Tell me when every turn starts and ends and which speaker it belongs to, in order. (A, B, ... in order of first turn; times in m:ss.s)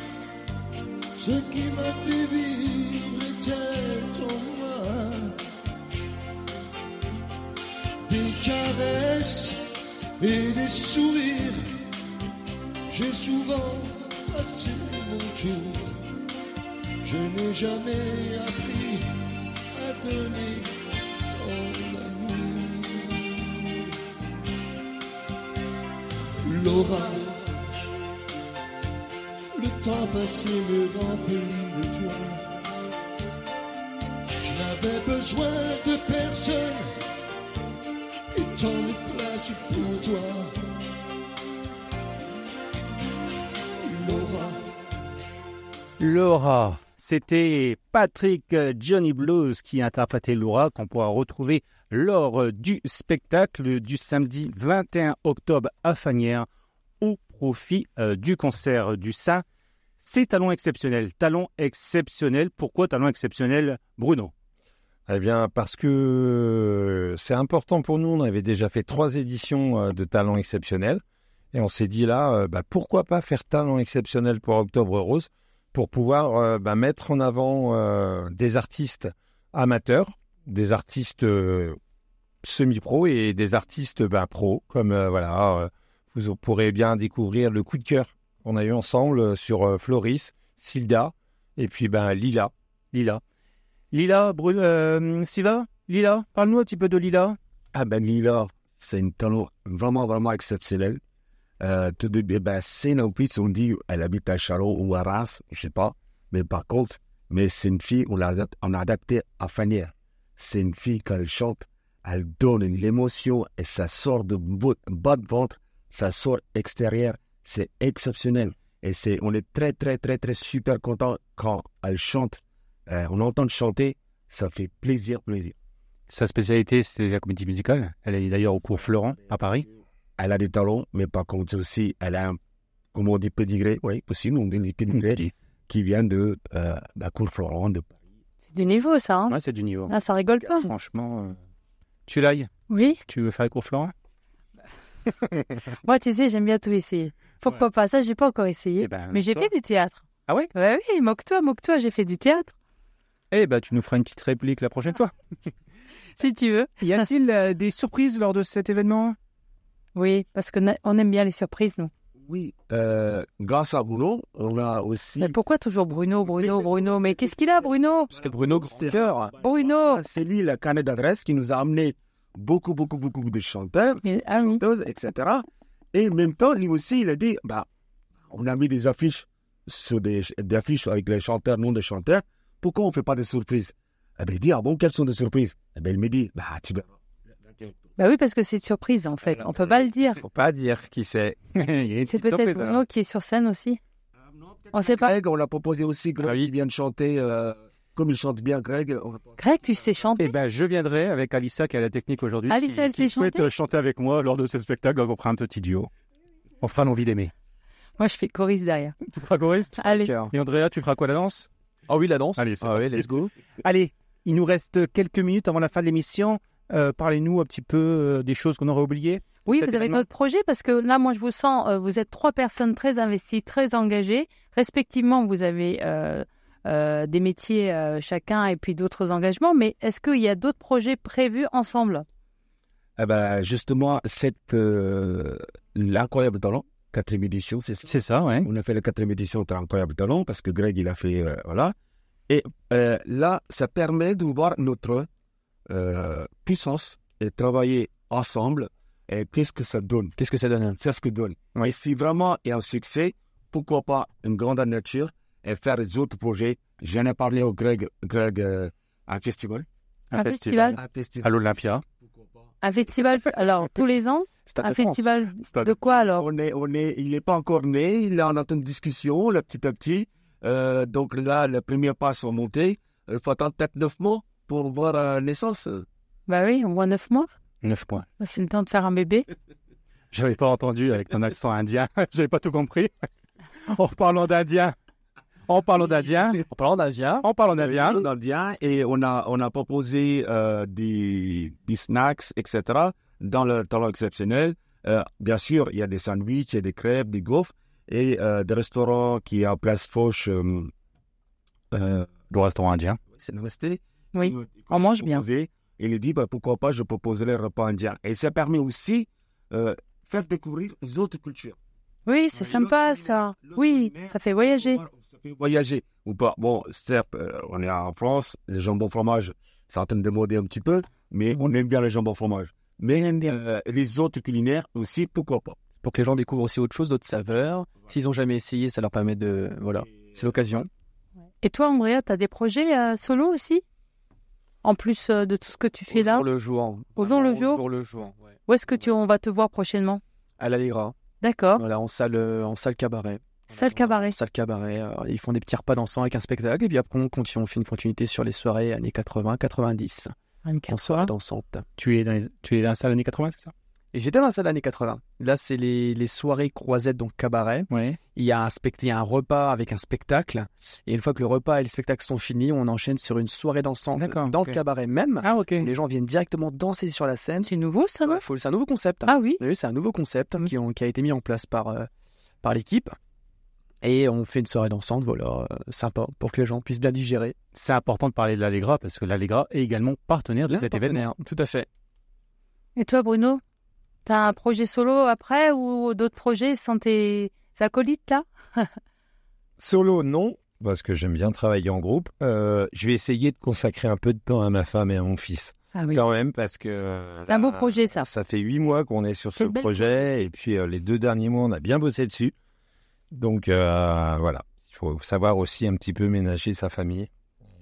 0:01.2-0:05.4 A
0:08.0-0:09.6 A
0:10.2-0:11.7 A
0:12.9-0:16.0 A
0:17.0-0:19.1 A
0:19.7-0:20.7 A
0:21.3-0:23.8 A
0:26.4-0:27.4 A
0:29.5-0:32.5 A
0:34.4-0:37.0 A
0:38.3-0:40.5 A
0:43.8-0:44.6 A
0:46.0-0:56.5 B
0:57.0-0:59.4 B
1:00.0-1:04.3 B
1:05.1-1:11.0 C
1:11.5-1:21.8 C
1:22.4-1:32.5 C
1:32.9-1:33.2 B
1:33.9-1:37.4 B
1:37.7-1:41.0 D
1:41.6-2:05.6 D
2:06.1-2:09.7 B
2:10.2-2:12.4 D
2:12.9-2:18.0 D
2:18.5-2:19.4 E
2:19.3-2:19.9 B
2:19.9-2:20.7 E
2:20.6-2:21.4 B
2:22.1-2:22.5 B
2:22.7-2:23.0 E
2:23.1-2:23.9 B
2:25.8-2:32.6 E
2:28.8-2:29.5 B
2:33.3-2:35.1 B
2:36.2-2:37.1 E
2:36.8-2:39.2 B
2:40.0-2:41.9 E
2:42.2-2:45.4 D
2:45.2-2:48.1 E
2:46.4-2:47.2 D
2:48.1-2:57.7 D
2:48.1-2:49.4 F
2:49.4-2:50.0 E
2:54.0-2:54.6 E
2:58.3-3:06.9 D
3:07.4-3:07.8 D
3:08.0-3:10.2 E
3:10.2-3:11.4 C
3:11.6-3:12.8 B
3:12.1-3:13.8 E
3:14.2-3:19.4 D
3:14.7-3:15.1 E
3:16.2-3:16.5 F
3:19.4-3:20.4 E
3:20.2-3:25.9 B
3:22.5-3:23.5 E
3:26.6-3:27.3 B
3:28.0-3:29.0 E
3:29.1-3:31.5 B
3:29.8-3:30.1 E
3:29.9-3:30.3 F
3:31.9-3:33.1 F
3:32.4-3:40.0 B
3:39.5-3:52.0 E
3:53.0-4:01.7 D
3:57.9-3:58.5 B
4:02.3-4:05.1 D
4:05.7-4:10.2 D
4:10.2-4:10.8 F
4:10.8-4:19.7 D
4:20.1-4:21.8 B
4:20.1-4:20.8 E
4:20.8-4:21.4 D
4:22.0-4:22.5 D
4:22.6-4:26.3 E
4:24.5-4:25.1 F
4:25.6-4:35.9 D
4:36.3-4:37.3 E
4:37.6-4:38.1 B
4:38.2-4:39.3 E
4:40.1-4:43.0 B
4:43.6-4:44.8 B
4:45.5-4:46.4 B
4:46.3-4:47.3 F
4:47.2-4:48.0 B
4:47.6-5:00.7 D
5:01.7-5:03.0 B
5:03.1-5:11.6 D
5:04.1-5:05.2 E
5:12.1-5:14.8 E
5:12.3-5:25.6 D
5:23.0-5:23.4 E
5:25.8-5:30.7 F
5:31.4-5:33.6 E
5:34.6-5:36.3 E
5:35.9-5:38.4 F
5:37.0-5:37.6 E
5:38.5-5:40.0 E
5:40.4-5:41.0 F
5:41.2-5:41.6 E
5:41.6-5:50.1 F
5:43.5-5:44.1 E
5:50.5-5:51.1 E
5:50.7-5:51.6 F
5:51.8-5:53.5 B
5:53.9-6:07.5 F
5:57.7-5:58.0 B
6:04.0-6:04.6 B
6:05.2-6:05.7 B
6:07.4-6:08.2 E
6:08.1-6:11.9 F
6:09.1-6:09.4 E
6:12.4-6:13.0 F
6:13.8-6:17.4 F
6:17.5-6:21.1 B
6:20.5-6:21.7 F
6:22.8-6:23.4 E
6:24.0-6:28.7 E
6:29.6-6:42.3 C
6:35.8-6:36.0 E
6:37.3-6:38.1 E
6:39.4-6:40.3 E
6:43.1-6:47.1 C